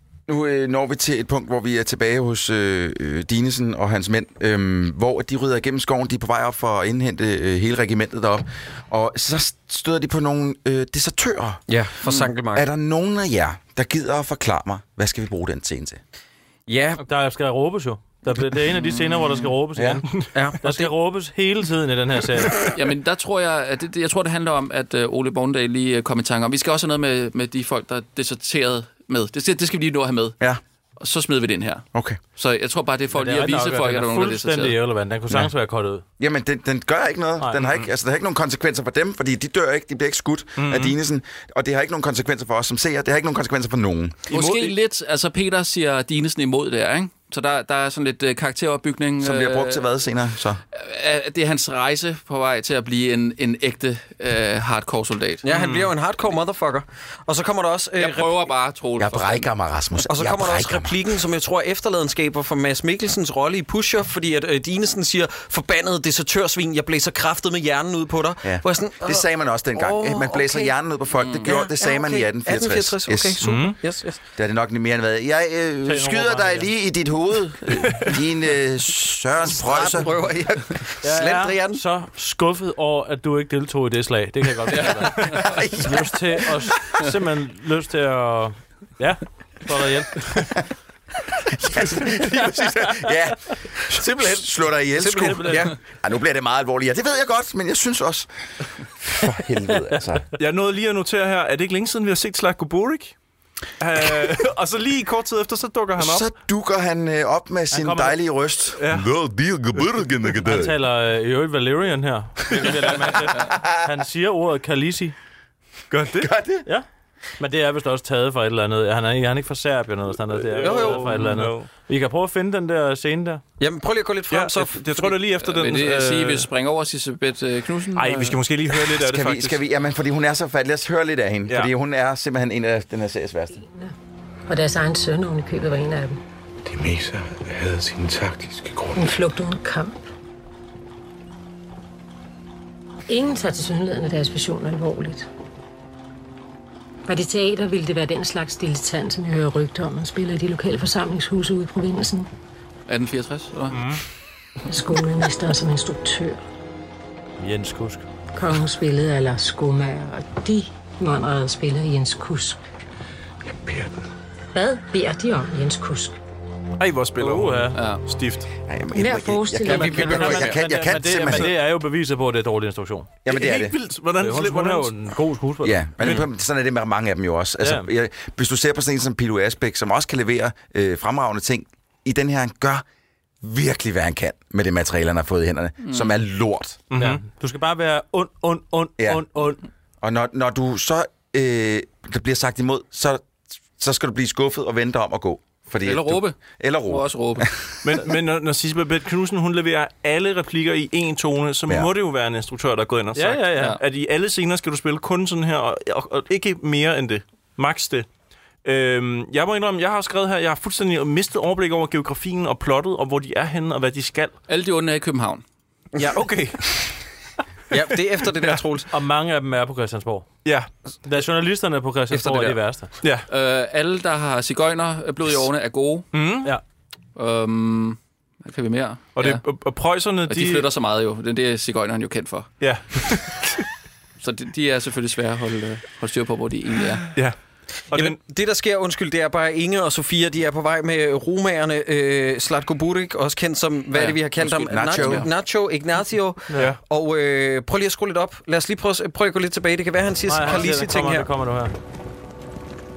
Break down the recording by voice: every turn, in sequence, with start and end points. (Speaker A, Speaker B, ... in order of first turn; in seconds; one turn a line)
Speaker A: 0.3-11.6
Speaker B: 11.7-12.7
Speaker A: 12.5-16.0
Speaker B: 16.7-17.0
Speaker C: 17.0-22.6
Speaker D: 18.8-19.5
Speaker A: 19.8-20.0
Speaker B: 20.4-20.9
Speaker D: 22.7-30.4
Speaker D: 31.0-34.8
Speaker C: 33.1-36.0
Speaker A: 36.2-44.2
Speaker E: 40.6-40.9
Speaker D: 44.3-49.9
Speaker E: 44.3-44.7
Speaker A: 49.2-50.6
Speaker D: 50.7-55.5
Speaker B: 55.4-58.5
Speaker E: 55.5-55.9
Speaker D: 58.0-59.5
Speaker A: 59.0-61.1
Speaker B: 60.0-70.8
Speaker A: 68.4-73.4
Speaker D: 71.2-71.5
Speaker B: 71.4-74.2
Speaker E: 73.4-73.8
Speaker A: 74.4-80.3
Speaker C: 75.8-76.7
Speaker B: 79.6-81.8
Speaker C: 81.0-90.5
Speaker D: 84.7-85.6
Speaker A: 91.6-98.3
Speaker B: 94.2-95.8
Speaker C: 95.1-95.7
Speaker A: 99.0-100.3
Speaker E: 100.4-103.1
Speaker E: 103.8-106.3
Speaker A: 106.0-108.8
Speaker C: 107.7-108.2
Speaker E: 108.8-109.1
Speaker F: 108.9-110.7
Speaker A: 109.8-110.5
Speaker C: 110.4-115.2
Speaker E: 115.9-116.3
Speaker A: 116.2-116.7
Speaker C: 117.4-123.4
Speaker E: 120.5-121.7
Speaker B: 120.6-121.2
Speaker B: 123.6-125.1
Speaker E: 124.3-126.5
Speaker D: 125.4-128.3
Speaker E: 127.9-129.6
Speaker A: 128.9-133.6
Speaker G: 133.5-133.9
Speaker G: 134.5-136.2
Speaker F: 136.7-139.2
Speaker G: 138.9-140.0
Speaker G: 143.1-145.3
Speaker G: 147.1-152.3
Speaker D: 152.9-153.8
Speaker G: 154.7-156.4
Speaker C: 157.4-158.1
Speaker G: 158.3-162.6
Speaker F: 163.5-164.0
Speaker G: 164.5-166.2
Speaker E: 166.8-168.5
Speaker C: 167.2-167.8
Speaker D: 167.8-168.0
Speaker A: 168.7-171.5
Speaker G: 168.9-170.6
Speaker B: 169.7-170.5
Speaker C: 169.7-173.1
Speaker E: 171.2-171.5
Speaker A: 173.2-173.8
Speaker E: 173.3-175.1
Speaker C: 174.2-175.8
Speaker A: 175.6-182.8
Speaker E: 176.0-176.3
Speaker C: 177.6-177.9
Speaker A: 183.4-186.8
Speaker D: 185.8-186.2
Speaker E: 186.9-187.2
Speaker C: 186.9-189.6
Speaker A: 189.0-189.3
Speaker A: 190.0-193.2
Speaker A: 193.8-197.5
Speaker D: 195.8-197.5
Speaker E: 197.8-208.1
Speaker C: 203.2-203.8
Speaker E: 208.6-214.4
Speaker D: 214.5-215.4
Speaker B: 215.9-216.3
Speaker E: 216.1-217.0
Speaker B: 217.7-218.9
Speaker E: 218.2-218.6
Speaker C: 218.9-220.3
Speaker E: 220.4-220.7
Speaker C: 221.1-222.9
Speaker B: 222.1-222.6
Speaker D: 223.3-226.1
Speaker E: 226.1-226.5
Speaker D: 227.2-229.4
Speaker E: 229.2-230.7
Speaker D: 230.3-232.6
Speaker E: 232.6-233.6
Speaker D: 234.2-237.1
Speaker E: 237.1-237.4
Speaker E: 237.9-238.2
Speaker B: 237.9-251.3
Speaker D: 243.9-244.2
Speaker A: 244.4-245.3
Speaker D: 244.9-245.3
Speaker C: 246.5-246.8
Speaker E: 246.5-246.8
Speaker C: 250.3-251.7